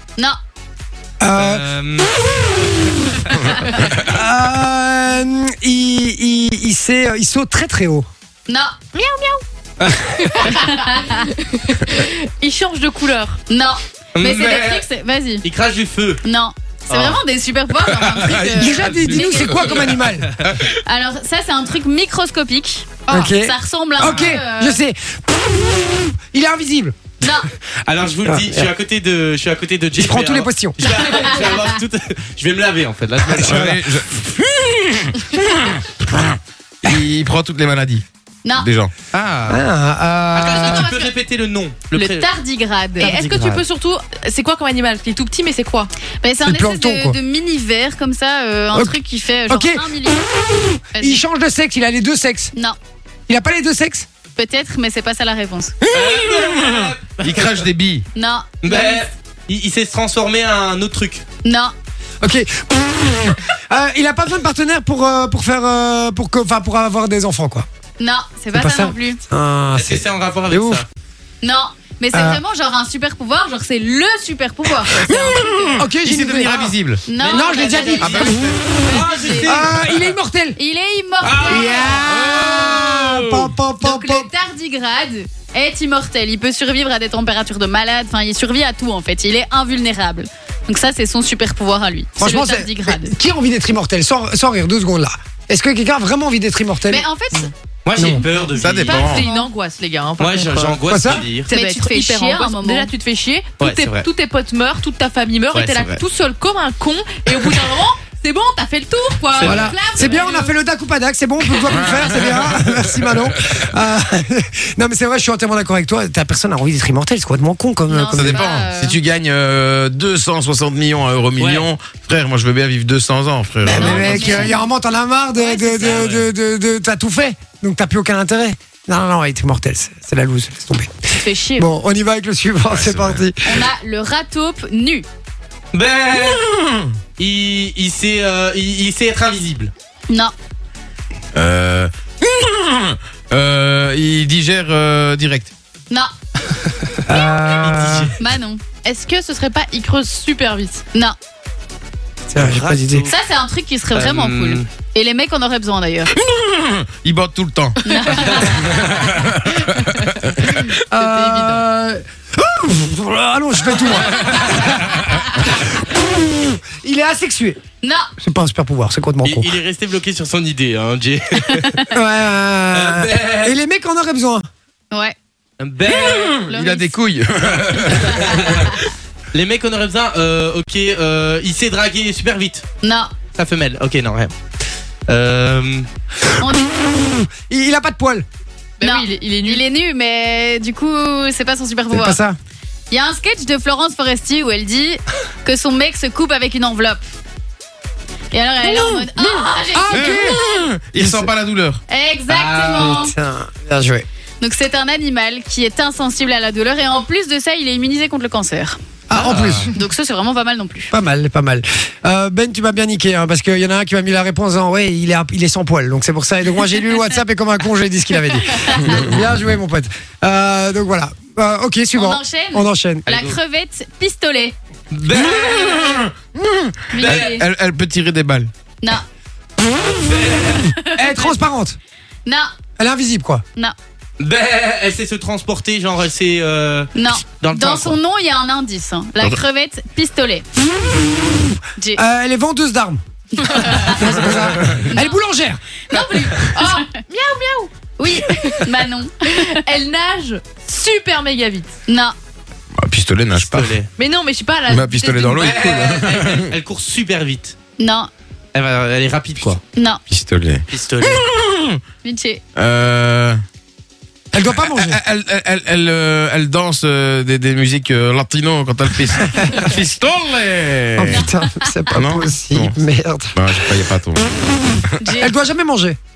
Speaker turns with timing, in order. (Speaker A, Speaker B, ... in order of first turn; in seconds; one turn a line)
Speaker A: 1.2-1.6
Speaker B: 1.3-2.4
Speaker A: 2.2-3.0
Speaker A: 3.9-8.1
Speaker C: 8.5-8.8
Speaker D: 8.9-9.4
Speaker B: 9.8-10.0
Speaker D: 10.0-13.4
Speaker C: 10.4-11.3
Speaker C: 13.5-15.4
Speaker B: 14.2-14.9
Speaker B: 15.4-16.2
Speaker C: 16.2-20.1
Speaker B: 16.9-17.2
Speaker B: 17.9-18.3
Speaker E: 18.2-19.9
Speaker A: 18.5-20.3
Speaker E: 20.4-20.7
Speaker C: 20.8-24.8
Speaker A: 23.1-27.0
Speaker B: 24.0-24.3
Speaker C: 27.2-27.5
Speaker B: 27.8-33.7
Speaker A: 28.2-28.7
Speaker A: 29.9-30.8
Speaker C: 30.8-31.7
Speaker E: 33.3-38.0
Speaker A: 33.4-34.0
Speaker E: 38.5-38.9
Speaker B: 39.1-39.6
Speaker A: 39.5-40.9
Speaker B: 40.3-42.2
Speaker D: 40.7-41.1
Speaker C: 41.9-43.1
Speaker D: 43.0-45.9
Speaker B: 43.0-43.6
Speaker C: 46.2-50.3
Speaker A: 46.4-47.2
Speaker A: 48.7-52.5
Speaker C: 50.9-51.2
Speaker A: 53.3-54.1
Speaker C: 54.4-55.7
Speaker E: 55.8-58.0
Speaker B: 55.9-57.6
Speaker C: 58.1-59.0
Speaker B: 58.6-61.2
Speaker C: 61.4-61.7
Speaker A: 62.2-67.7
Speaker C: 68.0-69.2
Speaker A: 68.5-70.8
Speaker B: 69.7-70.8
Speaker C: 71.4-75.8
Speaker A: 72.1-72.4
Speaker E: 75.0-77.1
Speaker A: 75.8-78.5
Speaker C: 77.1-79.6
Speaker B: 77.2-79.9
Speaker E: 78.0-78.6
Speaker A: 79.4-80.6
Speaker C: 80.5-82.0
Speaker B: 81.2-83.4
Speaker A: 81.4-84.3
Speaker E: 82.0-83.0
Speaker C: 83.8-93.1
Speaker A: 92.2-97.0
Speaker C: 96.9-97.5
Speaker B: 97.8-99.1
Speaker A: 98.0-98.2
Speaker E: 98.6-99.2
Speaker D: 98.7-110.5
Speaker C: 99.0-99.5
Speaker B: 100.2-101.5
Speaker A: 100.9-101.3
Speaker C: 101.5-102.9
Speaker B: 103.6-104.0
Speaker B: 105.5-106.0
Speaker B: 109.3-110.0
Speaker A: 109.4-118.5
Speaker E: 111.7-113.3
Speaker C: 117.9-119.0
Speaker E: 118.1-124.5
Speaker B: 121.4-121.7
Speaker A: 123.6-130.9
Speaker C: 123.7-124.7
Speaker C: 125.4-126.1
Speaker B: 125.9-126.3
Speaker C: 131.2-131.7
Speaker A: 131.6-133.6
Speaker E: 132.7-133.3
Speaker C: 133.4-135.1
Speaker B: 135.7-136.5
Speaker E: 136.1-136.9
Speaker B: 137.2-139.7
Speaker E: 141.3-145.5
Speaker A: 147.1-148.1
Speaker B: 147.6-148.2
Speaker C: 148.2-148.6
Speaker D: 148.8-150.8
Speaker A: 152.3-153.1
Speaker B: 152.3-153.2
Speaker C: 153.1-156.1
Speaker B: 153.9-154.7
Speaker E: 156.2-160.5
Speaker C: 157.8-158.9
Speaker A: 160.4-167.6
Speaker D: 160.6-161.6
Speaker C: 167.8-168.1
Speaker A: 168.2-169.6
Speaker B: 169.2-171.8
Speaker C: 171.5-171.9
Speaker A: 171.9-174.4
Speaker B: 172.7-173.6
Speaker C: 174.9-175.2
Speaker B: 175.6-176.3
Speaker E: 175.9-178.7
Speaker C: 176.4-176.9
Speaker B: 177.8-178.7
Speaker B: 179.3-182.7
Speaker C: 182.8-183.1
Speaker B: 183.3-184.3
Speaker B: 185.1-185.9
Speaker C: 186.4-186.8
Speaker A: 186.6-188.2
Speaker D: 188.8-189.6
Speaker C: 188.8-192.2
Speaker A: 191.9-192.4
Speaker C: 192.9-197.0
Speaker C: 198.3-200.6
Speaker A: 198.6-200.4
Speaker E: 199.9-201.8
Speaker A: 200.9-201.3
Speaker C: 201.9-203.1
Speaker B: 202.3-203.0
Speaker A: 202.7-204.1
Speaker C: 204.4-208.8
Speaker A: 209.1-209.7
Speaker E: 209.1-209.7
Speaker C: 209.7-210.9
Speaker A: 210.9-223.1
Speaker C: 218.5-219.0
Speaker C: 221.9-224.6
Speaker B: 223.1-223.4
Speaker B: 224.9-226.1
Speaker E: 225.1-228.5
Speaker C: 226.9-227.5
Speaker B: 226.9-227.4
Speaker B: 230.1-230.7
Speaker C: 230.6-231.3
Speaker A: 230.9-231.8
Speaker A: 232.8-233.4
Speaker B: 234.2-238.0
Speaker C: 236.9-240.5
Speaker A: 240.9-245.6
Speaker C: 243.3-244.0
Speaker C: 244.9-245.2
Speaker C: 245.9-246.8
Speaker D: 245.9-248.7
Speaker C: 248.0-249.6
Speaker D: 249.4-251.7
Speaker C: 251.9-252.1
Speaker E: 252.8-253.8
Speaker B: 253.3-253.9
Speaker D: 253.9-256.0
Speaker E: 254.7-256.5
Speaker B: 255.3-257.5
Speaker C: 257.8-258.1
Speaker B: 258.5-259.6
Speaker C: 259.7-260.0
Speaker E: 260.1-261.8
Speaker B: 260.7-261.3
Speaker C: 262.0-262.4
Speaker E: 262.6-263.4
Speaker A: 264.3-265.0
Speaker E: 264.4-271.2
Speaker A: 270.9-276.0
Speaker C: 271.1-271.8
Speaker E: 271.9-272.7
Speaker E: 273.4-274.3
Speaker C: 275.0-275.3